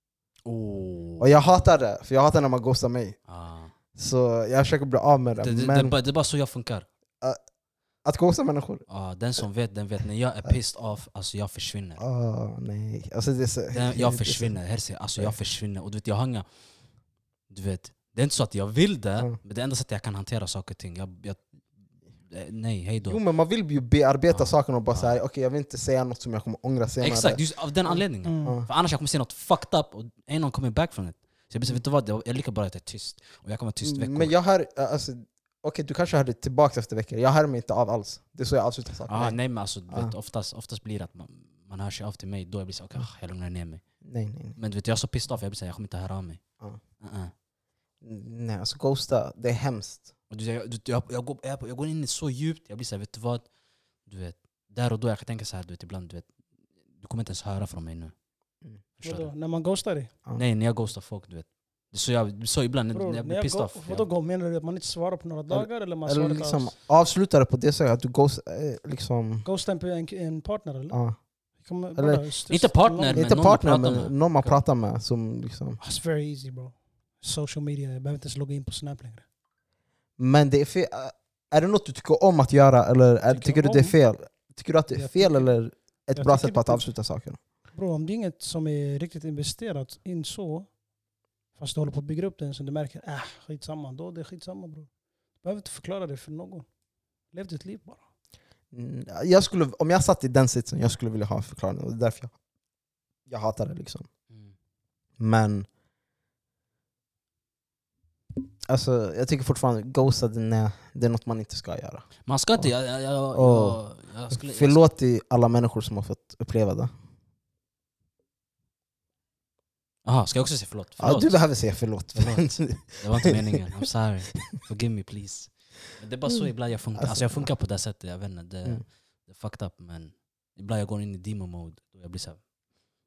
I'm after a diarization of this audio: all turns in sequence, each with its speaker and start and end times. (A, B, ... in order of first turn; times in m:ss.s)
0:00.5-0:01.3 A
0:01.2-0:03.2 B
0:03.3-0:03.8 A
0:04.0-0:06.0 B
0:05.4-0:06.9 A
0:08.0-0:08.8 B
0:08.9-0:12.0 A
0:12.0-0:14.6 B
0:13.7-0:16.5 A
0:17.5-0:21.7 A
0:22.2-0:23.2 A
0:23.0-0:28.7 B
0:24.3-0:25.2 A
0:27.0-0:34.3 A
0:28.2-0:28.6 C
0:33.8-0:40.1 B
0:39.1-0:43.9 A
0:44.0-0:44.6 B
0:44.6-0:46.4 A
0:47.0-0:47.3 A
0:48.0-0:50.1 B
0:50.3-0:53.5 A
0:54.0-0:56.4 A
0:56.9-0:58.1 A
0:59.0-0:59.3 A
0:59.0-1:00.1 C
1:00.3-1:04.1 A
1:02.9-1:06.7 C
1:05.5-1:09.5 B
1:09.4-1:13.3 C
1:10.9-1:11.3 B
1:12.0-1:12.2 B
1:12.5-1:14.6 A
1:13.1-1:15.8 B
1:15.8-1:19.2 C
1:20.2-1:27.4 B
1:23.3-1:24.0 C
1:24.9-1:25.6 C
1:26.1-1:27.0 C
1:27.6-1:30.8 C
1:31.5-1:36.7 C
1:37.3-1:38.0 C
1:38.7-1:42.4 B
1:43.3-1:44.1 B
1:45.2-1:45.7 B
1:48.7-1:52.7 B
1:52.2-1:54.8 A
1:53.3-1:56.9 B
2:00.0-2:12.5 A
2:01.0-2:03.4 B
2:07.0-2:07.5 B